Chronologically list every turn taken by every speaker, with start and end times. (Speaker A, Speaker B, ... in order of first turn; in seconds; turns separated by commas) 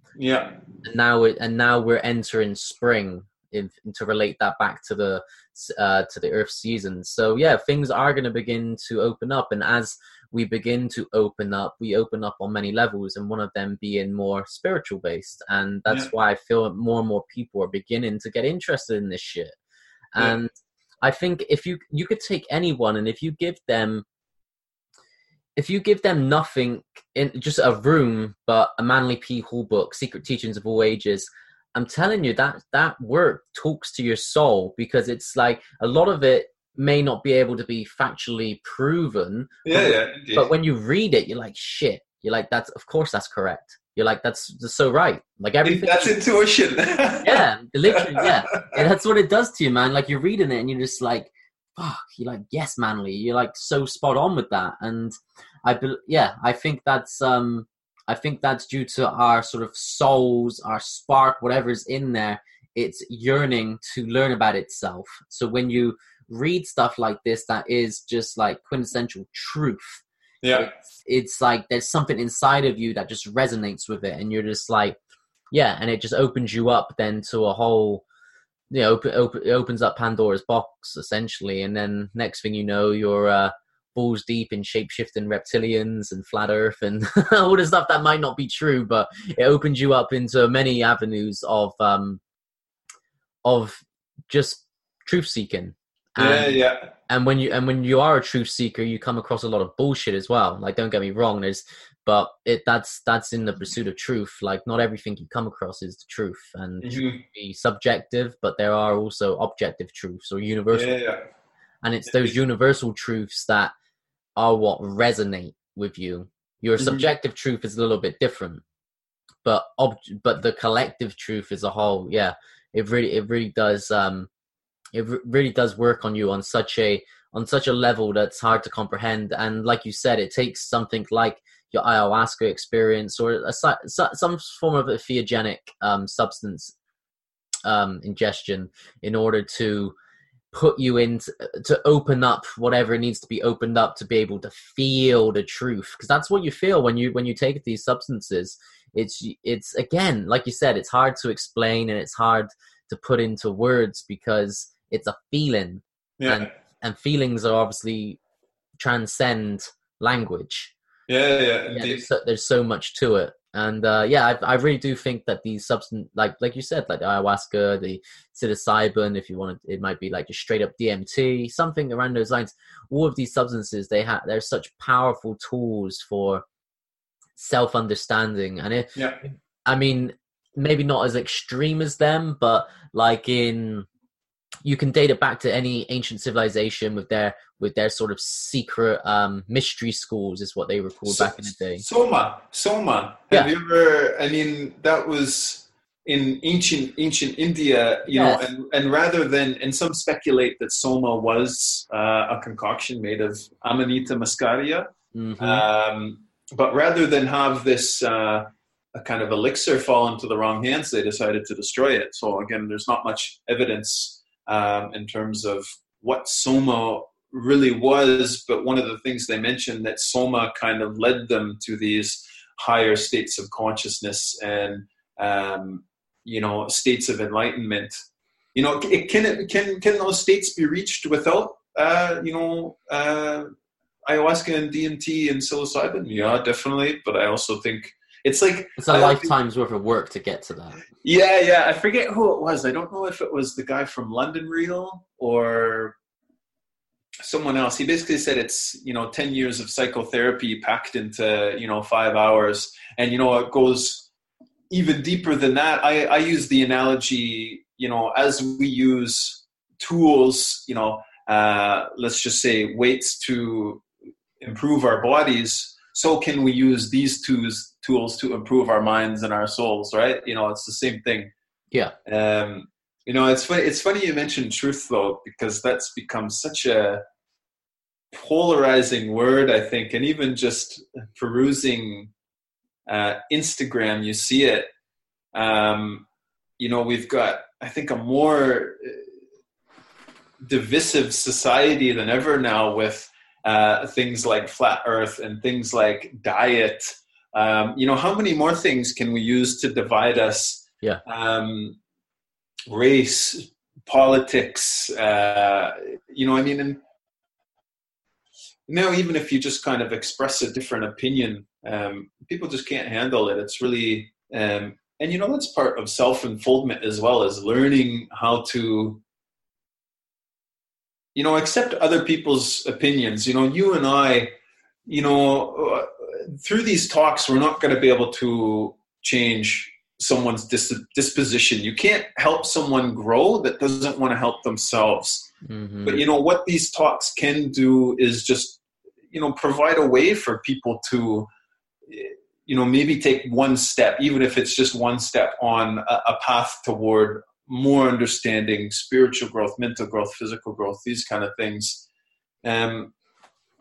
Speaker A: 0.2-0.6, Speaker B: 0.8-19.5, Speaker B: 20.1-20.5, Speaker B: 21.0-24.0, Speaker B: 25.6-46.1, Speaker A: 39.6-40.5, Speaker A: 45.6-48.8, Speaker B: 47.2-75.0, Speaker A: 70.4-70.7, Speaker B: 75.5-78.0, Speaker B: 78.7-92.2, Speaker B: 93.4-96.6, Speaker A: 96.2-96.9, Speaker B: 97.1-110.9, Speaker A: 106.8-107.2, Speaker A: 110.7-111.2, Speaker B: 111.8-113.7, Speaker A: 112.1-112.3, Speaker B: 114.3-118.6, Speaker A: 116.8-117.0, Speaker B: 119.4-124.3, Speaker B: 124.9-136.7, Speaker B: 137.6-139.9, Speaker B: 140.5-158.2, Speaker A: 156.2-156.5, Speaker B: 158.8-160.7, Speaker A: 161.1-162.1, Speaker B: 161.7-176.4, Speaker B: 177.4-183.8, Speaker A: 178.9-179.2, Speaker B: 184.6-191.8, Speaker A: 191.1-204.9, Speaker B: 198.1-198.5, Speaker B: 205.1-205.7, Speaker A: 205.4-228.0, Speaker A: 228.5-233.5, Speaker A: 234.1-239.3, Speaker B: 238.8-240.8, Speaker A: 241.0-245.9, Speaker A: 247.2-254.1, Speaker A: 254.7-263.8, Speaker A: 264.4-271.3, Speaker A: 272.0-277.0, Speaker A: 278.1-282.1, Speaker A: 282.9-284.7, Speaker A: 285.3-286.1, Speaker A: 286.6-289.0, Speaker A: 290.4-301.8, Speaker A: 302.7-306.8, Speaker A: 308.7-319.0, Speaker A: 321.1-324.3, Speaker A: 324.9-335.3, Speaker B: 335.4-336.0, Speaker A: 335.8-338.6, Speaker A: 339.1-341.3, Speaker A: 341.9-351.8, Speaker A: 352.4-352.9